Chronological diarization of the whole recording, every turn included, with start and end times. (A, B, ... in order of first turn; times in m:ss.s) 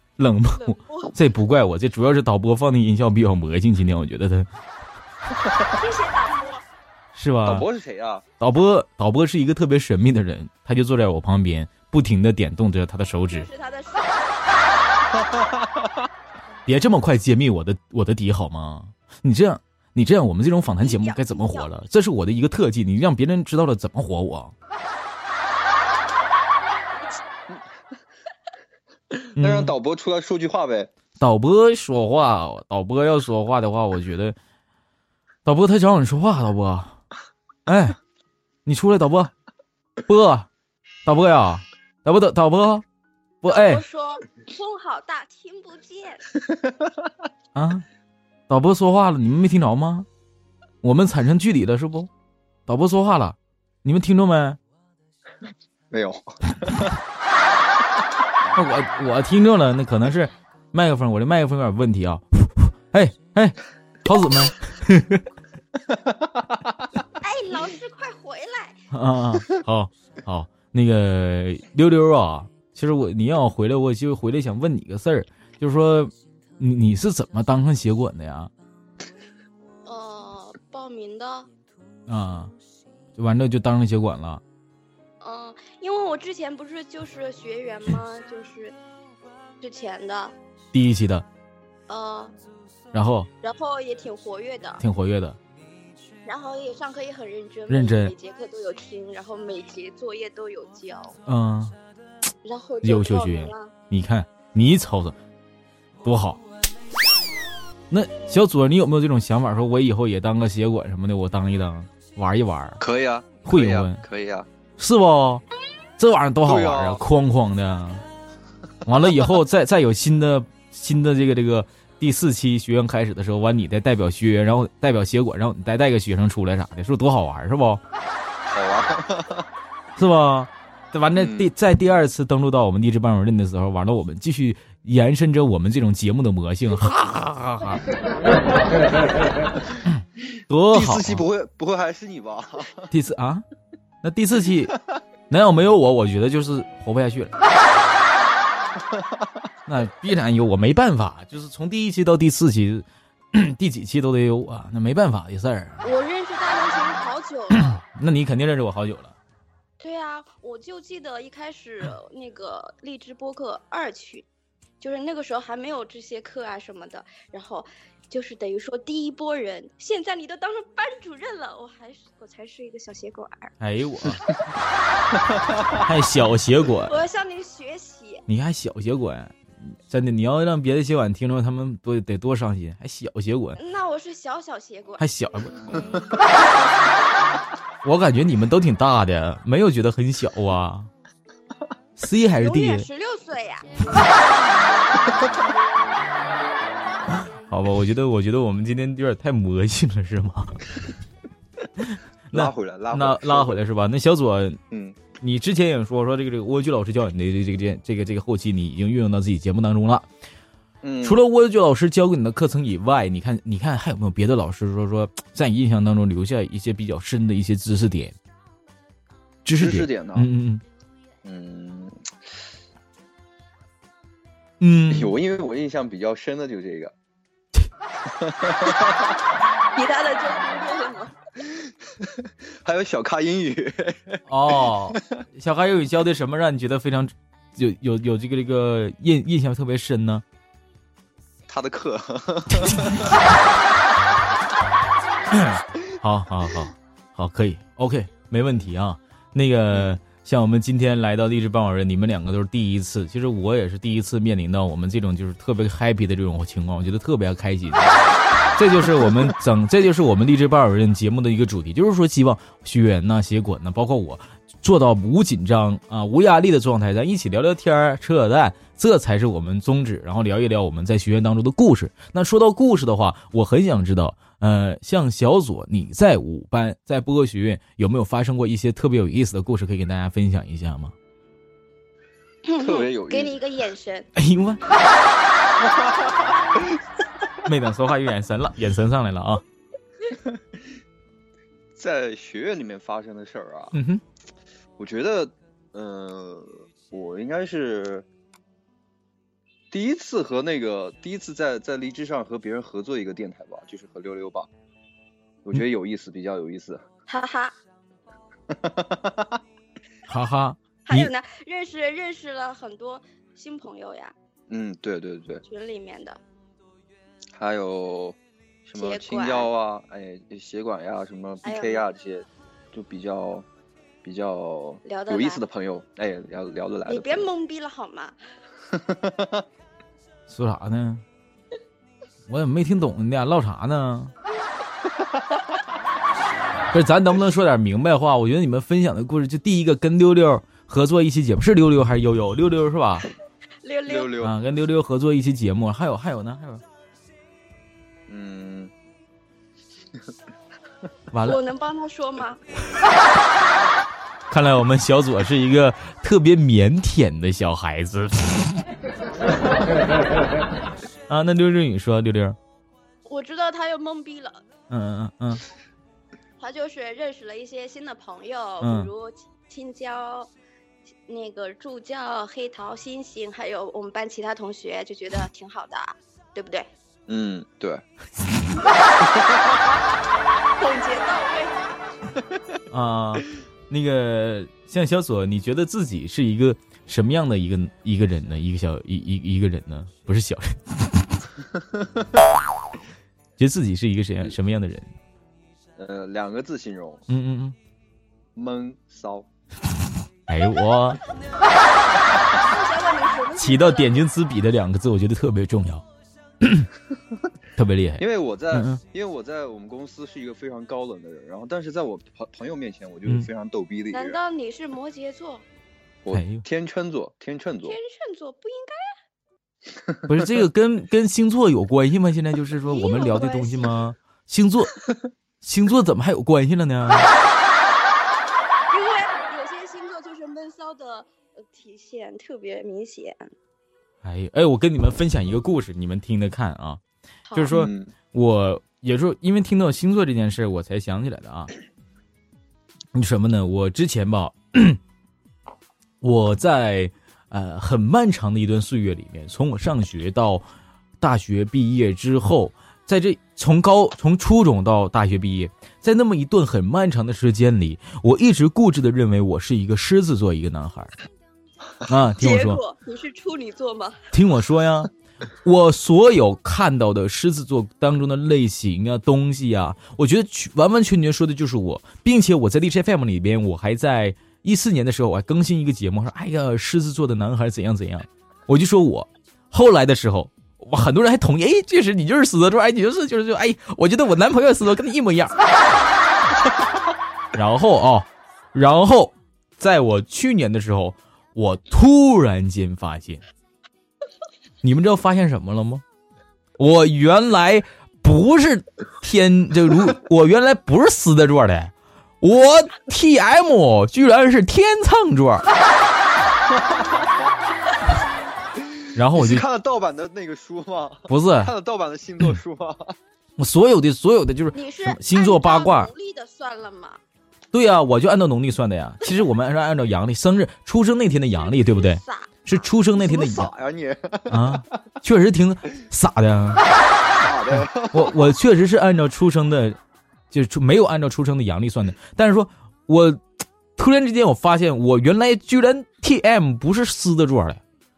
0:00.2-0:04.5 A
0:00.5-0:01.2 B
0:05.8-0:06.6 B
0:07.1-0:07.7 A
0:07.4-0:08.2 C
0:08.4-0:13.5 A
0:13.3-0:14.4 B
0:15.2-0:16.0 C
0:16.7-0:24.5 A
0:20.8-0:21.7 B
0:29.2-0:30.9 C
0:29.4-0:29.7 A
0:31.2-0:34.4 A
0:35.4-0:37.0 A
0:37.6-0:38.0 A
0:38.6-0:39.3 A
0:40.0-0:40.5 A
0:41.0-0:42.8 A
0:43.4-0:43.8 A
0:43.4-0:46.2 B
0:46.5-0:46.9 C
0:47.5-0:47.8 A
0:48.5-0:50.1 A
0:50.8-0:52.1 A
0:52.7-0:54.6 A
0:55.9-0:56.9 C
0:58.5-1:05.2 A
1:05.9-1:06.2 C
1:07.2-1:08.8 B
1:08.9-1:18.5 A
1:19.8-1:21.5 B
1:22.1-1:22.5 A
1:23.2-1:24.4 A
1:25.2-1:28.8 B
1:29.6-1:30.4 B
1:30.7-1:31.2 A
1:31.9-1:32.3 B
1:32.9-1:33.3 A
1:33.4-1:34.8 B
1:34.8-1:35.4 A
1:36.2-1:41.2 B
1:37.7-1:38.1 A
1:41.3-1:41.7 A
1:42.4-1:43.7 B
1:42.8-1:45.2 A
1:46.0-1:46.4 A
1:47.9-1:52.8 A
1:52.8-1:54.5 C
1:53.4-1:54.0 A
1:54.8-1:55.4 A
1:56.0-1:58.0 A
1:56.4-1:57.0 C
1:58.8-2:07.8 A
2:08.4-2:09.5 C
2:10.0-2:17.8 A
2:11.1-2:11.5 C
2:19.8-2:21.2 A
2:20.7-2:22.9 C
2:22.9-2:23.4 A
2:24.0-2:24.8 A
2:25.3-2:27.3 A
2:28.9-2:29.4 C
2:29.7-2:35.8 A
2:35.8-2:37.8 B
2:37.6-2:39.2 A
2:39.8-2:44.3 B
2:44.8-2:53.5 B
2:53.6-2:54.3 A
2:55.8-2:57.0 A
2:56.8-2:58.2 B
2:58.3-3:03.6 A
3:03.6-3:05.9 B
3:05.0-3:05.6 A
3:07.8-3:10.9 A
3:12.0-3:12.9 A
3:12.4-3:13.7 B
3:15.1-3:15.4 C
3:17.2-3:20.8 A
3:21.8-3:24.6 A
3:22.3-3:23.6 C
3:24.7-3:25.1 C
3:25.2-3:30.0 A
3:30.8-3:31.2 C
3:31.0-3:38.1 A
3:39.4-3:40.6 A
3:39.5-3:40.3 C
3:41.2-3:42.0 C
3:44.6-3:45.2 A
3:44.9-3:46.9 C
3:48.0-3:49.2 C
3:49.7-3:51.1 B
3:51.4-3:55.0 C
3:54.3-4:00.2 A
4:01.5-4:03.1 C
4:05.3-4:17.9 A
4:09.7-4:10.0 C
4:18.6-4:40.9 A
4:42.4-4:44.1 B
4:42.6-4:43.4 C
4:44.2-4:44.6 A
4:45.6-4:46.8 C
4:47.4-4:49.4 A
4:51.7-4:53.7 C
4:53.7-4:54.0 A
4:54.8-4:58.0 C
4:59.7-5:04.5 C
5:05.4-5:06.8 C
5:07.1-5:07.6 B
5:08.5-5:09.4 C
5:10.1-5:11.1 A
5:10.8-5:14.1 B
5:14.5-5:15.4 C
5:15.4-5:16.2 B
5:17.3-5:23.4 C
5:18.7-5:19.5 B
5:21.4-5:21.8 B
5:24.0-5:27.3 C
5:24.8-5:25.4 B
5:26.9-5:28.2 B
5:28.7-5:29.4 C
5:30.3-5:31.0 A
5:32.3-5:34.1 A
5:36.7-5:43.1 A
5:43.6-5:44.1 B
5:43.9-5:44.3 C
5:44.2-5:46.6 A
5:48.1-5:48.7 C
5:51.1-5:51.4 A
5:51.2-5:52.4 B
5:54.3-5:58.6 A
6:01.1-6:02.4 A
6:03.0-6:04.4 B
6:04.7-6:05.4 A
6:06.4-6:10.3 B
6:08.6-6:08.9 A
6:11.1-6:16.7 B
6:17.1-6:17.8 C
6:19.0-6:19.8 C
6:20.6-6:21.7 B
6:22.7-6:31.0 A
6:33.4-6:34.9 A
6:35.8-6:37.0 C
6:37.1-6:37.6 A
6:38.3-6:39.3 C
6:40.3-6:41.0 A
6:42.3-6:44.0 B
6:43.4-6:45.8 A
6:46.4-6:46.7 A
6:47.6-6:48.8 A
6:48.0-6:54.2 C
6:53.9-6:55.4 B
6:56.0-6:57.8 C
6:56.1-6:56.4 A
6:57.6-6:58.9 B
7:00.1-7:04.8 A
7:02.6-7:03.7 B
7:05.4-7:07.1 A
7:08.7-7:13.3 B
7:14.0-7:16.8 A
7:17.3-7:21.5 A
7:17.5-7:17.9 C
7:22.9-7:24.8 A
7:26.0-7:30.4 A
7:31.0-7:40.9 A
7:41.8-7:42.6 A
7:42.2-7:44.0 B
7:44.1-7:44.9 A
7:45.4-8:05.3 A
8:07.3-8:13.2 A
8:14.6-8:15.8 A
8:16.6-8:25.4 A
8:26.5-8:27.3 C
8:28.9-8:29.4 A
8:29.1-8:32.9 C
8:31.1-8:31.5 A
8:33.4-8:35.9 A
8:34.5-8:37.0 B
8:37.5-8:43.5 A
8:41.4-8:42.3 B
8:42.9-8:44.6 C
8:44.3-8:46.6 A
8:47.1-8:48.3 C
8:47.5-8:49.8 A
8:50.3-8:53.2 A
8:53.8-8:57.6 A